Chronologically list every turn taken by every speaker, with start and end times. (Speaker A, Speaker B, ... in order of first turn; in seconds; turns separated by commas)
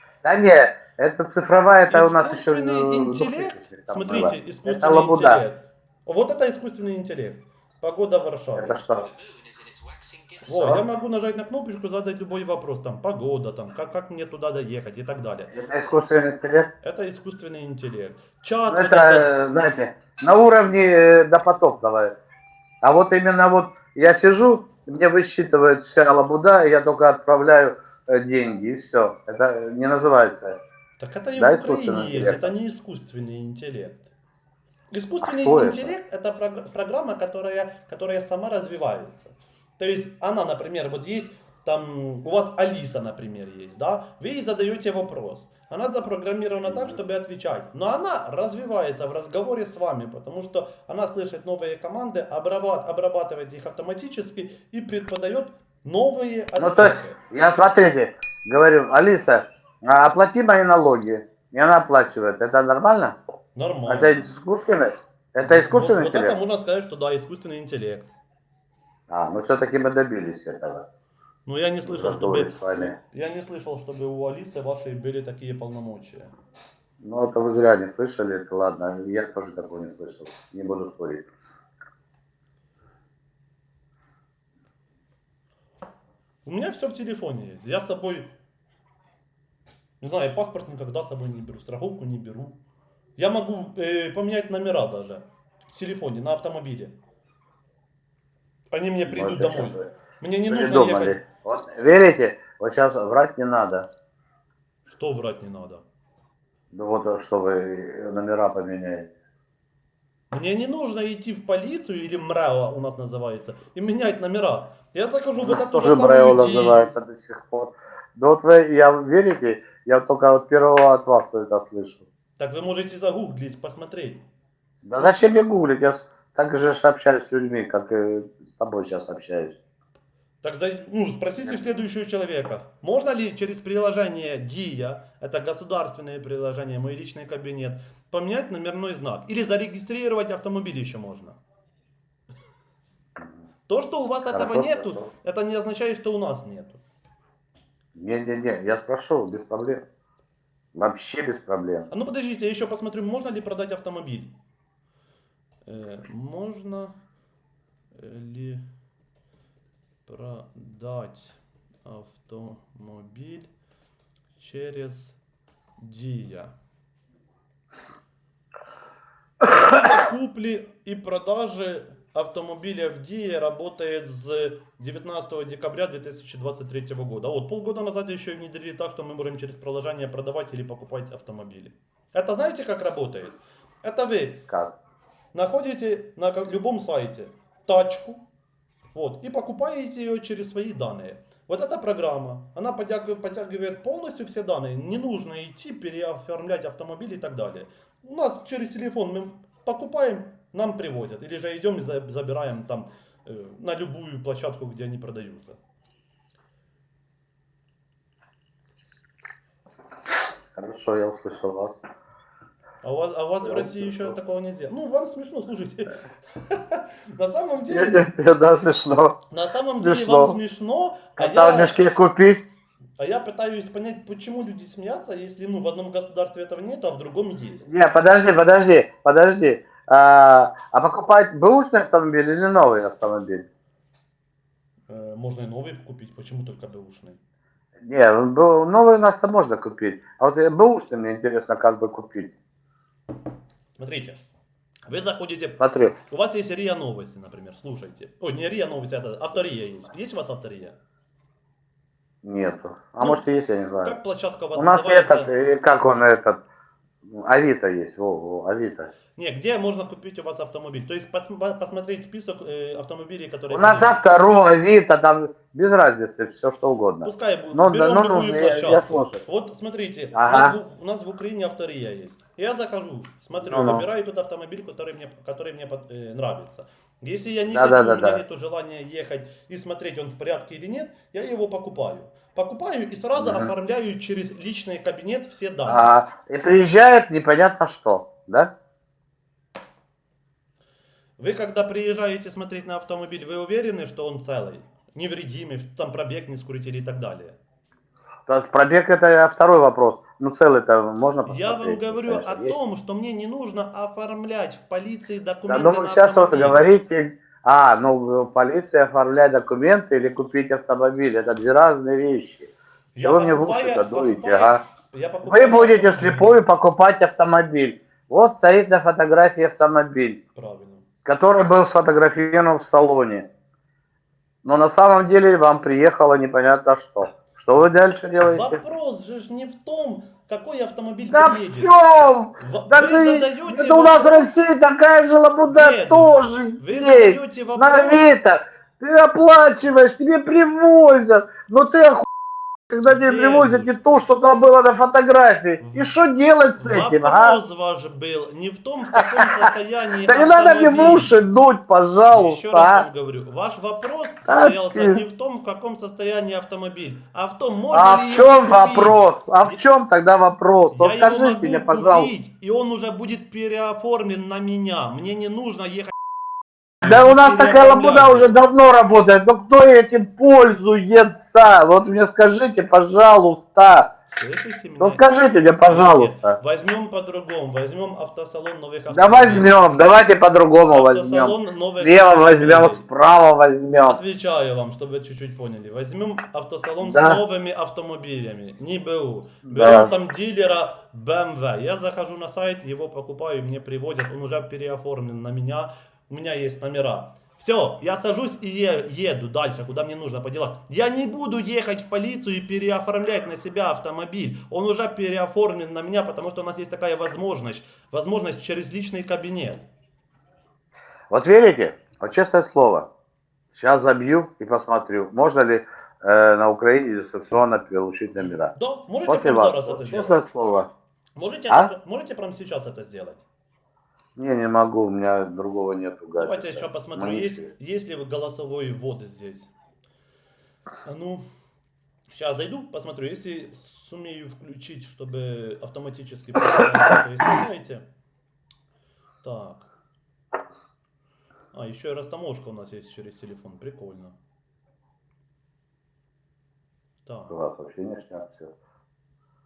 Speaker A: 0.2-5.4, Speaker B: 1.9-8.8, Speaker A: 8.6-9.1, Speaker B: 10.4-15.5, Speaker A: 10.5-10.8, Speaker A: 15.5-16.7, Speaker B: 16.8-19.3, Speaker A: 18.7-22.1, Speaker A: 22.8-30.6, Speaker B: 31.0-34.1, Speaker A: 31.4-32.5, Speaker B: 34.9-57.2, Speaker A: 35.2-35.9, Speaker A: 46.7-47.0, Speaker A: 56.6-63.2, Speaker B: 63.5-64.3, Speaker A: 63.9-66.4, Speaker B: 65.4-68.1, Speaker A: 69.1-70.9, Speaker B: 71.5-76.3, Speaker A: 71.9-73.0, Speaker A: 77.0-81.3, Speaker B: 86.5-88.3, Speaker B: 90.0-92.6, Speaker B: 93.2-97.0, Speaker B: 98.7-101.2, Speaker A: 99.1-99.9, Speaker A: 100.5-103.9, Speaker B: 104.9-105.8, Speaker A: 106.7-109.1, Speaker B: 110.3-116.9, Speaker A: 115.4-122.1, Speaker B: 122.4-124.2, Speaker A: 124.8-129.6, Speaker B: 130.4-141.4, Speaker B: 143.7-146.8, Speaker A: 144.3-145.1, Speaker A: 148.0-149.8, Speaker A: 150.7-151.9, Speaker B: 151.9-154.3, Speaker B: 155.7-157.0, Speaker B: 157.9-158.7, Speaker B: 160.1-163.5, Speaker B: 164.4-165.2, Speaker B: 165.8-166.5, Speaker B: 169.4-184.5, Speaker A: 184.5-184.8, Speaker B: 185.3-188.2, Speaker B: 188.9-205.6, Speaker A: 210.6-211.8, Speaker B: 212.8-218.1, Speaker A: 213.4-214.2, Speaker A: 217.7-219.2, Speaker B: 219.3-221.8, Speaker A: 219.8-220.4, Speaker A: 221.2-222.4, Speaker B: 223.0-227.7, Speaker A: 227.7-233.5, Speaker B: 234.9-237.2, Speaker A: 237.8-242.3, Speaker B: 243.7-244.2, Speaker B: 244.9-250.8, Speaker A: 245.6-245.9, Speaker A: 252.2-254.0, Speaker B: 253.8-255.3, Speaker A: 254.6-256.4, Speaker A: 257.1-258.9, Speaker B: 259.2-264.0, Speaker A: 263.5-269.2, Speaker B: 267.0-285.9, Speaker A: 270.1-270.6, Speaker A: 273.4-273.9, Speaker A: 277.5-278.2, Speaker A: 283.2-283.5, Speaker A: 285.7-288.5, Speaker B: 291.2-297.4, Speaker A: 298.3-302.6, Speaker B: 301.3-306.6, Speaker A: 305.5-314.6, Speaker B: 312.9-316.4, Speaker A: 315.2-320.2, Speaker B: 320.4-320.9, Speaker A: 321.1-323.3, Speaker A: 324.4-328.6, Speaker B: 328.2-331.7, Speaker A: 331.1-342.1, Speaker B: 332.4-334.4, Speaker B: 335.5-338.1, Speaker A: 342.7-347.4, Speaker B: 342.9-344.0, Speaker B: 345.6-346.0, Speaker B: 346.6-351.2, Speaker A: 349.0-349.5, Speaker A: 350.0-352.9, Speaker B: 352.1-359.6, Speaker A: 354.3-355.0, Speaker A: 357.7-362.1, Speaker B: 360.7-365.9, Speaker B: 366.8-368.4, Speaker A: 366.8-373.9, Speaker B: 374.1-375.0, Speaker A: 374.8-376.4, Speaker B: 375.6-379.5, Speaker A: 378.9-384.0, Speaker B: 380.7-382.8, Speaker B: 383.8-409.7, Speaker A: 386.8-387.2, Speaker A: 389.5-389.9, Speaker A: 411.1-412.9, Speaker A: 413.5-418.5, Speaker B: 418.5-420.2, Speaker A: 419.1-420.7, Speaker B: 421.2-423.2, Speaker A: 424.2-427.5, Speaker B: 426.2-429.5, Speaker B: 430.9-431.2, Speaker B: 432.1-437.9, Speaker B: 439.2-439.7, Speaker B: 441.5-444.2, Speaker B: 447.1-447.4, Speaker A: 447.3-448.5